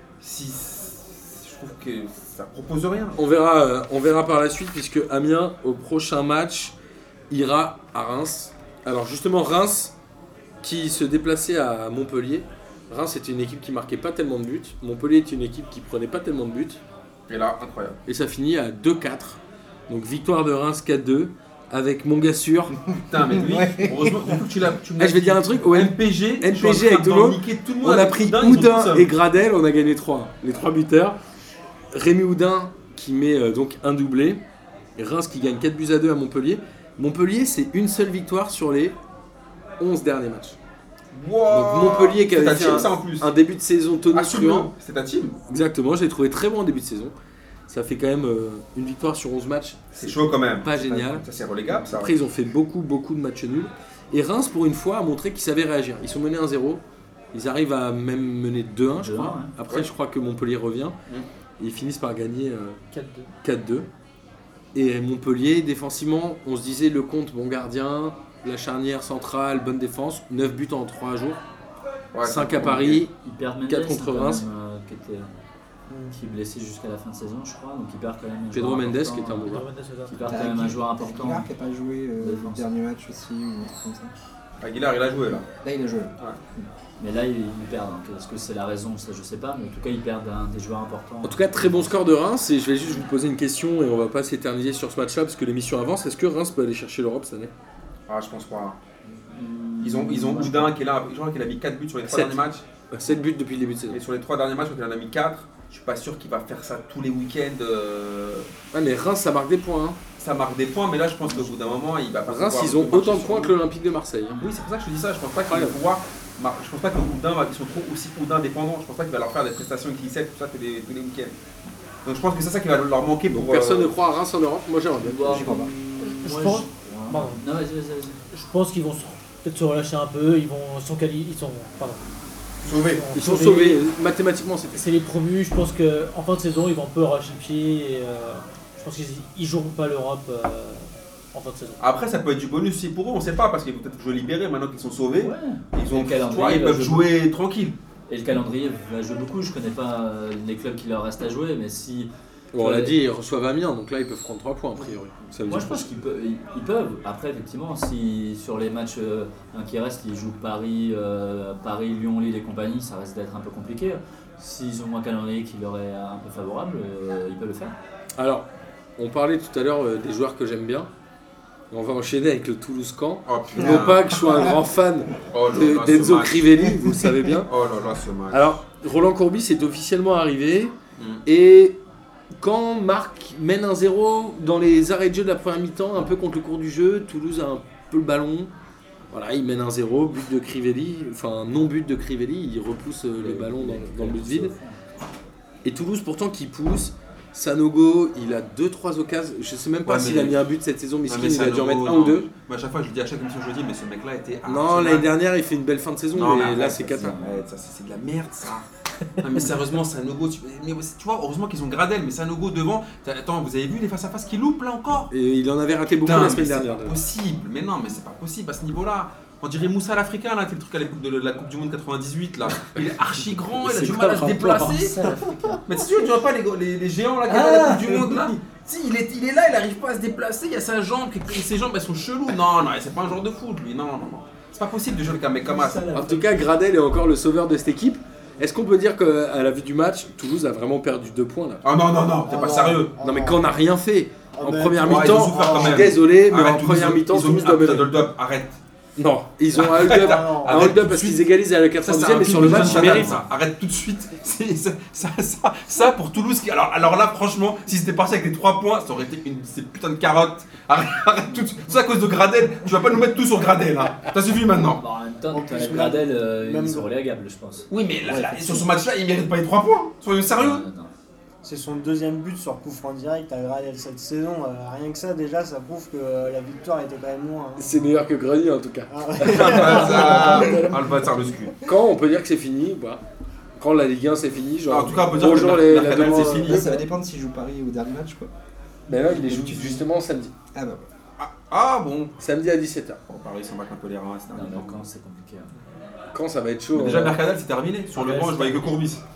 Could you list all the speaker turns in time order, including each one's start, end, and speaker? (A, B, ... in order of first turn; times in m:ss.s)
0:00.2-0:03.2 A
0:03.2-0:06.8 B
0:07.3-0:10.0 B
0:10.6-0:16.8 B
0:17.3-0:18.0 A
0:18.1-0:22.8 B
0:22.9-0:24.4 C
0:23.1-0:29.1 A
0:25.0-0:31.2 B
0:31.9-0:34.4 B
0:35.0-0:39.0 B
0:39.8-0:40.6 B
0:41.1-0:43.3 A
0:41.5-0:44.7 B
0:44.1-0:45.4 A
0:45.5-0:47.1 B
0:47.7-0:51.2 B
0:50.0-0:52.2 A
0:51.8-1:01.0 B
0:59.0-0:59.5 D
1:01.6-1:02.8 B
1:02.9-1:03.3 E
1:03.4-1:03.9 B
1:04.8-1:11.4 B
1:12.1-1:13.0 A
1:12.2-1:13.1 B
1:13.2-1:15.3 D
1:13.7-1:14.4 B
1:15.9-1:16.2 F
1:16.1-1:19.6 D
1:18.5-1:19.7 B
1:19.5-1:20.4 E
1:20.1-1:21.5 D
1:20.3-1:24.1 C
1:22.2-1:22.7 D
1:24.6-1:25.5 A
1:25.6-1:26.1 C
1:26.6-1:31.9 D
1:31.2-1:37.5 B
1:38.1-1:38.8 A
1:39.1-1:40.8 D
1:39.8-1:42.6 A
1:42.0-1:42.4 B
1:42.9-1:44.0 B
1:43.9-1:48.5 A
1:48.7-1:50.0 B
1:50.2-1:53.6 A
1:52.3-1:54.4 B
1:54.4-2:01.3 A
1:55.5-1:55.8 B
2:02.0-2:03.9 A
2:03.3-2:05.4 B
2:05.0-2:08.2 D
2:05.2-2:05.7 C
2:06.0-2:07.4 E
2:08.3-2:12.0 E
2:12.6-2:13.8 E
2:12.6-2:13.1 A
2:13.1-2:14.8 B
2:14.7-2:21.8 E
2:21.8-2:27.8 A
2:25.2-2:27.1 D
2:28.1-2:33.0 D
2:32.5-2:35.9 B
2:35.5-2:47.8 D
2:48.2-2:50.9 B
2:51.7-2:57.5 B
2:53.3-2:54.4 A
2:53.6-2:54.6 C
2:55.3-2:56.8 A
2:57.4-2:58.5 A
2:58.3-3:00.7 B
3:01.0-3:01.2 A
3:01.3-3:01.8 B
3:02.4-3:08.5 B
3:09.1-3:14.5 B
3:13.2-3:14.8 D
3:15.6-3:22.3 B
3:19.8-3:20.4 A
3:21.1-3:25.1 A
3:24.5-3:27.2 B
3:26.1-3:28.7 A
3:26.5-3:27.4 D
3:29.2-3:35.1 A
3:35.1-3:37.0 B
3:35.9-3:45.0 A
3:43.5-3:44.8 B
3:44.7-3:45.6 D
3:45.7-3:56.0 A
3:47.3-3:48.2 D
3:55.5-3:56.4 D
3:55.9-4:01.6 B
4:01.6-4:02.9 A
4:02.3-4:03.6 F
4:03.0-4:08.0 B
4:04.4-4:06.0 F
4:04.8-4:08.6 A
4:09.0-4:13.2 B
4:09.6-4:11.2 A
4:09.8-4:10.7 F
4:11.8-4:24.8 A
4:12.4-4:13.2 D
4:24.6-4:27.7 D
4:25.3-4:26.9 F
4:27.7-4:30.7 A
4:28.0-4:28.7 C
4:30.4-4:30.9 D
4:31.4-4:37.9 F
4:37.6-4:40.8 B
4:38.9-4:40.7 F
4:39.2-4:41.6 A
4:41.6-4:43.0 B
4:43.6-4:46.8 B
4:44.7-4:46.7 A
4:45.9-4:48.3 C
4:48.9-4:50.3 B
4:49.1-4:49.8 C
4:50.5-4:50.9 C
4:51.2-4:52.1 A
4:52.2-4:53.0 B
4:53.1-4:54.8 A
4:54.3-4:55.5 D
4:56.1-4:57.2 B
4:56.7-4:59.0 A
4:58.0-4:58.7 E